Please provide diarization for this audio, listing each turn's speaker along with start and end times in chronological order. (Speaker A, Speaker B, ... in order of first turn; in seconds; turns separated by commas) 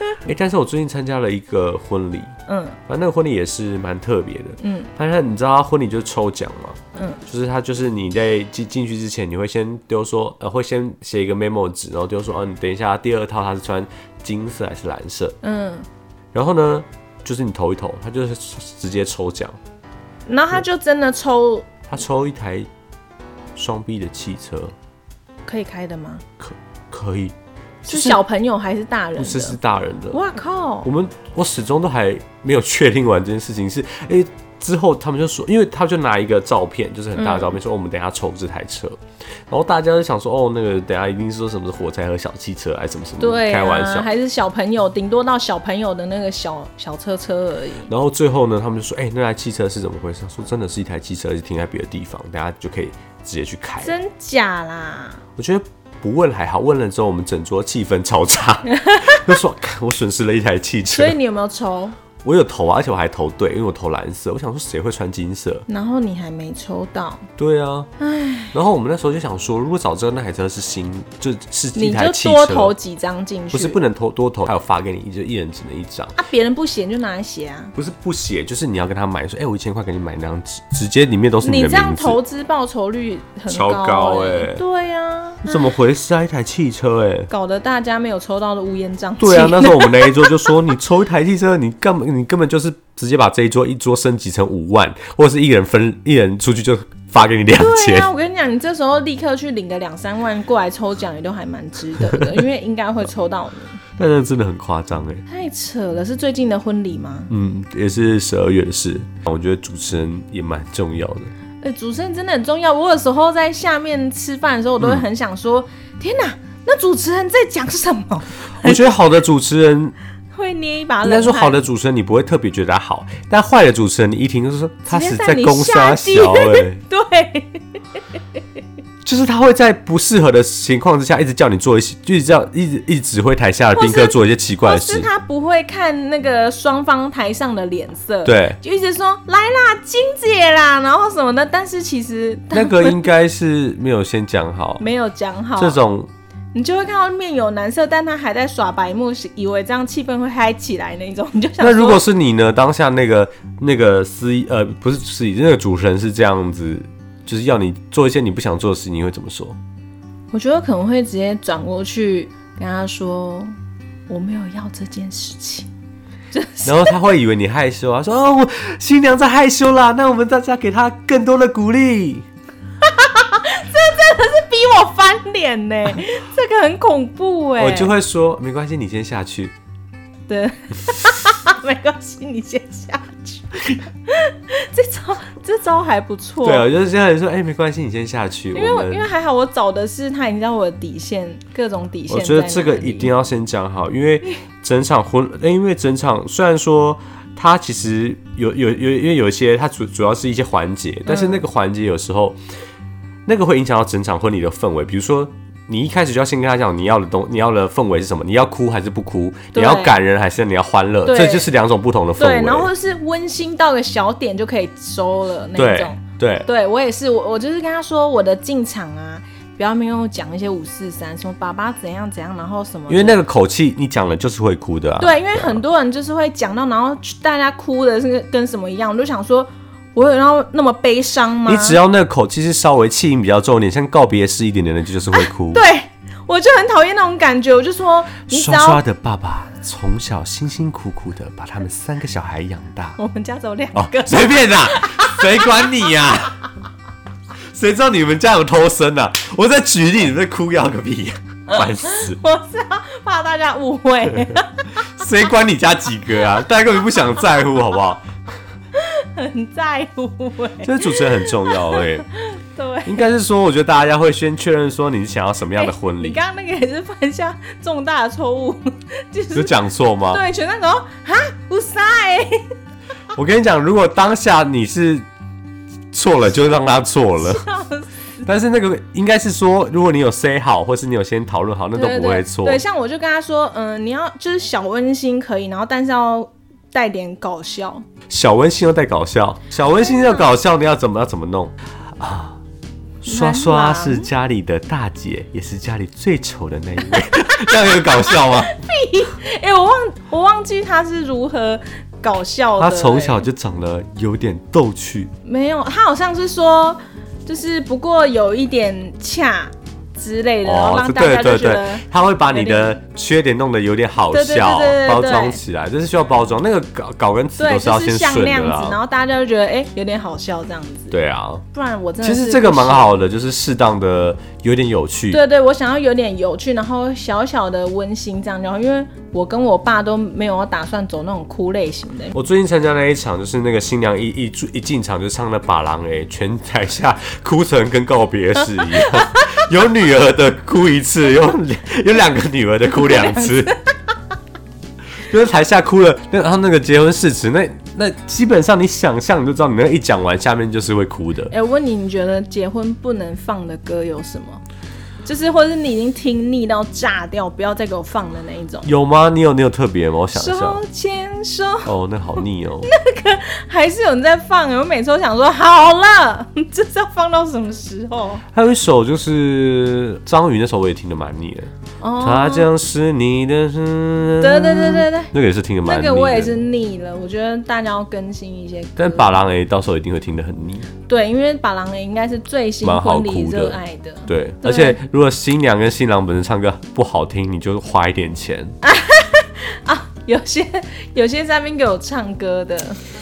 Speaker A: 0.2-2.3, Speaker B: 2.5-2.8, Speaker A: 2.9-15.3, Speaker B: 4.6-4.9, Speaker B: 7.0-7.2, Speaker B: 15.4-15.8, Speaker A: 16.3-19.6, Speaker B: 20.3-21.7, Speaker A: 21.9-22.7, Speaker A: 23.5-24.7, Speaker B: 25.5-26.2, Speaker A: 26.4-27.3, Speaker A: 27.9-28.2, Speaker B: 27.9-29.6, Speaker A: 29.2-30.2, Speaker B: 30.1-30.9, Speaker A: 30.8-44.1, Speaker B: 37.1-37.5, Speaker B: 43.2-47.9, Speaker A: 47.9-53.9, Speaker B: 53.8-55.2, Speaker A: 55.4-61.2, Speaker B: 58.7-59.2, Speaker B: 60.9-62.0, Speaker A: 62.2-65.7, Speaker B: 65.7-67.2, Speaker A: 67.4-67.9, Speaker B: 68.0-68.5, Speaker A: 68.5-72.7, Speaker B: 71.8-73.8, Speaker A: 73.5-76.1, Speaker B: 76.2-77.7, Speaker A: 77.7-82.2, Speaker B: 81.4-85.7, Speaker A: 83.5-84.6, Speaker A: 85.4-87.3, Speaker B: 87.3-90.5, Speaker A: 89.2-98.1, Speaker B: 97.5-103.8, Speaker A: 102.0-102.4, Speaker A: 104.0-105.2, Speaker B: 105.2-107.3, Speaker A: 107.3-111.3, Speaker B: 111.6-118.8, Speaker A: 118.6-119.9, Speaker B: 120.3-121.6, Speaker A: 121.0-126.8, Speaker B: 124.9-127.8, Speaker A: 129.0-135.1, Speaker B: 133.7-143.1, Speaker A: 138.2-138.6, Speaker A: 142.5-144.8, Speaker B: 144.8-145.8, Speaker A: 145.6-146.1, Speaker B: 146.5-152.0, Speaker A: 151.6-159.6, Speaker B: 160.3-163.5, Speaker B: 164.1-165.7, Speaker B: 166.3-167.0, Speaker A: 166.6-172.2, Speaker B: 172.8-177.9, Speaker A: 177.6-179.5, Speaker B: 180.3-186.7, Speaker A: 186.4-189.1, Speaker B: 188.5-193.1, Speaker A: 192.1-202.4, Speaker B: 201.1-201.4, Speaker A: 203.2-212.7, Speaker B: 209.5-209.9, Speaker B: 211.1-211.5, Speaker B: 212.2-223.2, Speaker A: 215.5-216.5, Speaker A: 222.9-225.6, Speaker B: 225.0-231.8, Speaker A: 231.4-235.6, Speaker B: 235.1-238.8, Speaker A: 238.3-243.0, Speaker B: 243.0-246.1, Speaker A: 243.7-246.4, Speaker A: 247.5-252.2, Speaker B: 251.5-254.8, Speaker A: 254.8-258.0, Speaker B: 258.7-263.0, Speaker A: 260.6-262.1, Speaker A: 262.8-266.2, Speaker B: 265.6-269.5, Speaker A: 269.3-270.2, Speaker B: 270.1-272.4, Speaker A: 273.1-275.0, Speaker A: 275.9-277.4, Speaker B: 277.2-278.2, Speaker A: 278.2-282.6, Speaker B: 281.7-287.8, Speaker A: 288.1-292.4, Speaker B: 289.8-290.3, Speaker A: 293.0-298.5, Speaker B: 293.1-294.1, Speaker B: 297.3-303.2, Speaker A: 302.6-305.1, Speaker B: 305.2-312.8, Speaker A: 310.4-318.8, Speaker B: 314.1-315.4, Speaker B: 317.4-321.0, Speaker A: 320.9-321.4, Speaker B: 321.5-323.0, Speaker A: 322.0-325.2, Speaker B: 325.1-332.1, Speaker A: 332.1-343.6, Speaker B: 338.9-339.2, Speaker B: 342.8-343.7, Speaker A: 345.1-351.3, Speaker B: 351.3-354.4, Speaker B: 355.0-358.7, Speaker A: 358.6-360.6, Speaker B: 360.1-361.7, Speaker A: 361.6-362.7, Speaker B: 362.6-368.2, Speaker A: 368.3-376.4, Speaker B: 371.8-372.5, Speaker B: 374.2-379.1, Speaker A: 378.8-380.7, Speaker B: 380.9-384.8, Speaker A: 382.6-388.5, Speaker B: 388.6-392.8